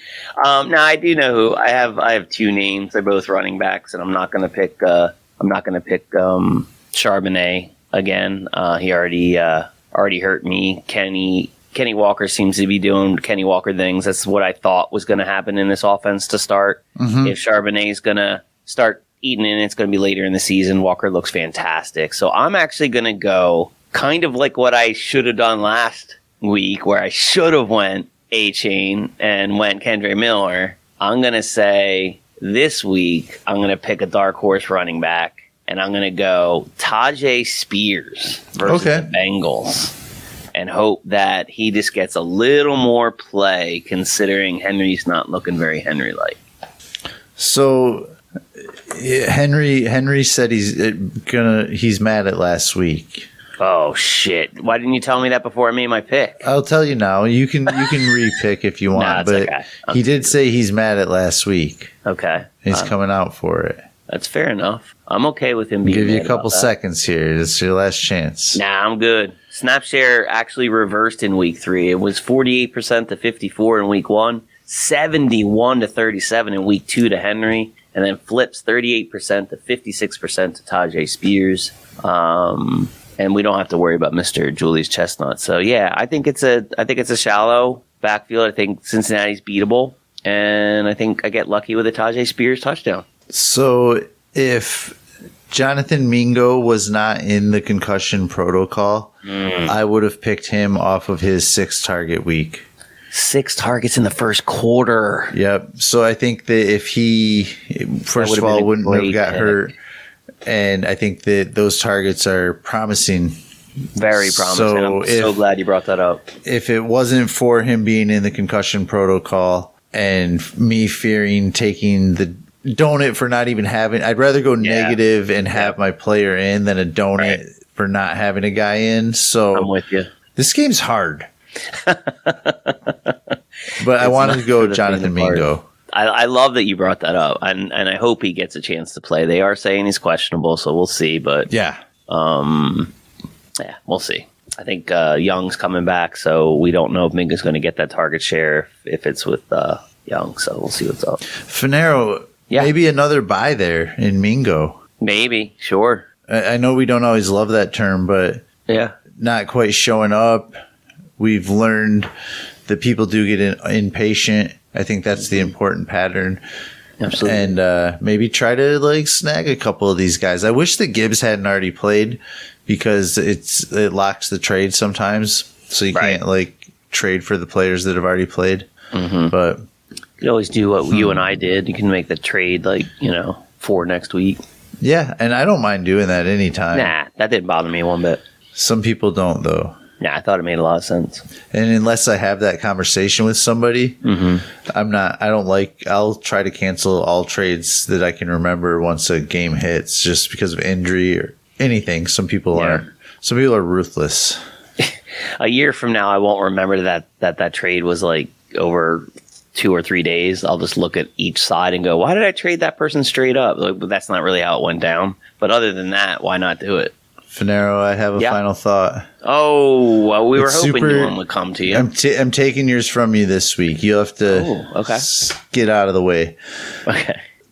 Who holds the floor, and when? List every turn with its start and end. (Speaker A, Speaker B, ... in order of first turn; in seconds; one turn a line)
Speaker A: 0.4-39.9
Speaker B: 17.0-17.4
Speaker B: 38.6-39.1
Speaker A: 40.5-46.4
Speaker B: 47.4-53.3
Speaker A: 53.6-56.5
Speaker B: 56.4-61.9
Speaker A: 58.9-60.3
Speaker A: 62.0-62.9
Speaker B: 62.6-63.8
Speaker A: 64.1-66.7
Speaker B: 65.8-68.6
Speaker A: 68.5-93.0
Speaker B: 93.3-95.0
Speaker B: 95.5-102.6
Speaker A: 99.2-99.7
Speaker A: 103.1-105.3
Speaker B: 105.3-109.7
Speaker A: 108.2-109.7
Speaker B: 110.4-113.4
Speaker A: 114.0-116.3
Speaker B: 114.1-115.4
Speaker B: 116.4-129.7
Speaker A: 124.6-125.0
Speaker A: 129.5-130.1
Speaker B: 130.3-131.3
Speaker A: 131.7-133.3
Speaker B: 133.8-135.7
Speaker A: 134.0-141.5
Speaker B: 141.5-141.8
Speaker A: 142.1-142.9
Speaker A: 143.6-151.2
Speaker B: 151.4-154.8
Speaker A: 152.5-152.7
Speaker A: 155.0-156.1
Speaker B: 156.3-158.4
Speaker A: 158.7-158.9
Speaker B: 159.2-160.6
Speaker B: 161.2-162.1
Speaker B: 162.7-166.4
Speaker A: 167.0-167.6
Speaker B: 167.2-178.7
Speaker A: 175.9-176.2
Speaker A: 178.9-179.3
Speaker B: 179.3-179.6
Speaker A: 180.2-184.4
Speaker B: 180.9-181.2
Speaker B: 184.8-186.9
Speaker A: 186.7-188.2
Speaker B: 188.5-189.8
Speaker A: 190.0-191.2
Speaker B: 191.5-194.0
Speaker A: 194.0-194.4
Speaker B: 194.6-204.4
Speaker A: 202.5-202.8
Speaker A: 204.8-216.9
Speaker B: 217.3-219.1
Speaker A: 219.2-221.9
Speaker B: 220.3-221.2
Speaker B: 221.7-226.4
Speaker A: 224.3-225.1
Speaker A: 226.8-227.2